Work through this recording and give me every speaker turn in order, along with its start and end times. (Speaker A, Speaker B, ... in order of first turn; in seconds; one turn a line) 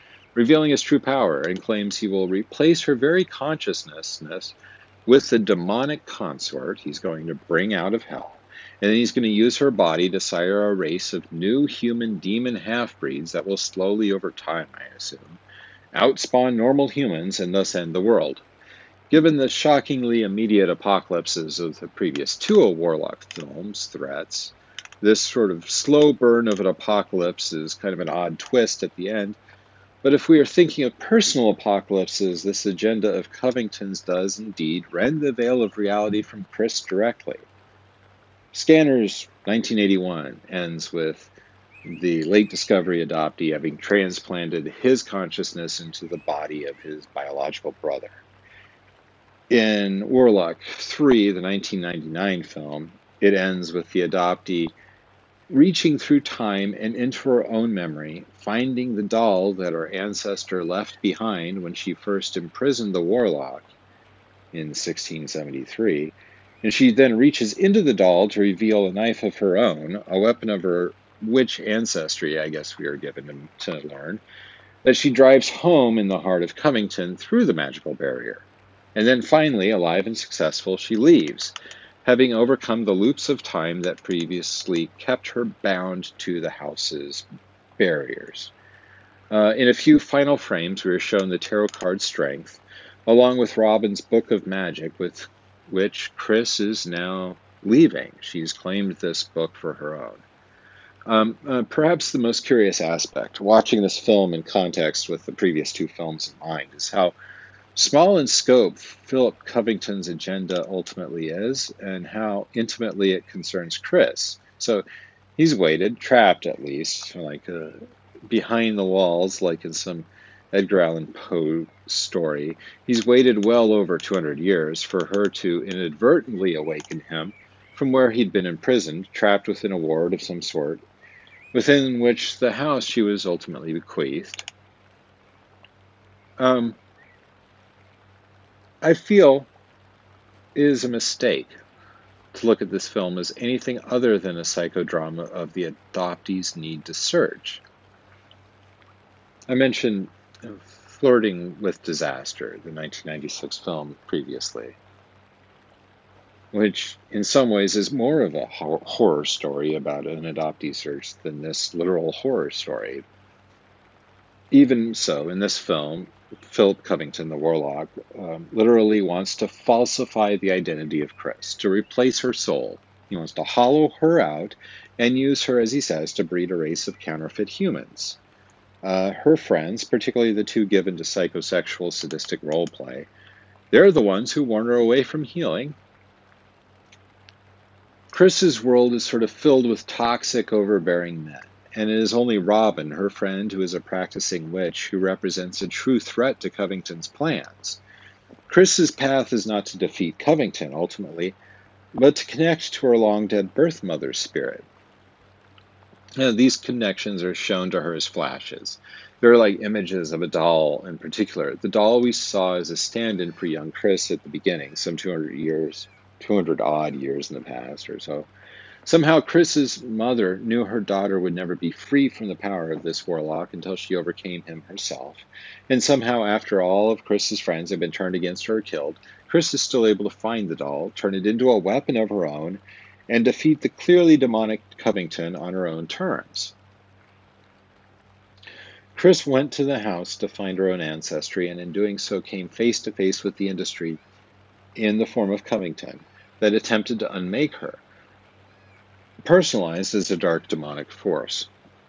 Speaker A: 0.3-4.5
Speaker A: 5.0-15.4
Speaker A: 15.9-18.4
Speaker A: 19.1-29.4
Speaker A: 30.0-37.5
Speaker A: 38.5-41.3
Speaker A: 41.9-48.2
Speaker A: 49.5-54.7
Speaker A: 55.5-63.7
Speaker A: 64.5-74.2
Speaker A: 74.8-87.2
Speaker A: 87.8-88.5
Speaker A: 89.3-100.2
Speaker A: 101.1-107.1
Speaker A: 107.7-114.8
Speaker A: 115.4-130.8
Speaker A: 131.5-134.5
Speaker A: 136.4-136.8
Speaker A: 138.8-139.5
Speaker A: 140.5-141.6
Speaker A: 142.3-147.6
Speaker A: 149.5-154.8
Speaker A: 156.5-163.0
Speaker A: 164.5-178.2
Speaker A: 178.8-183.1
Speaker A: 183.7-185.7
Speaker A: 188.1-197.8
Speaker A: 198.5-201.4
Speaker A: 201.9-204.7
Speaker A: 206.2-218.3
Speaker A: 218.8-236.5
Speaker A: 238.9-244.0
Speaker A: 244.8-247.8
Speaker A: 249.2-251.5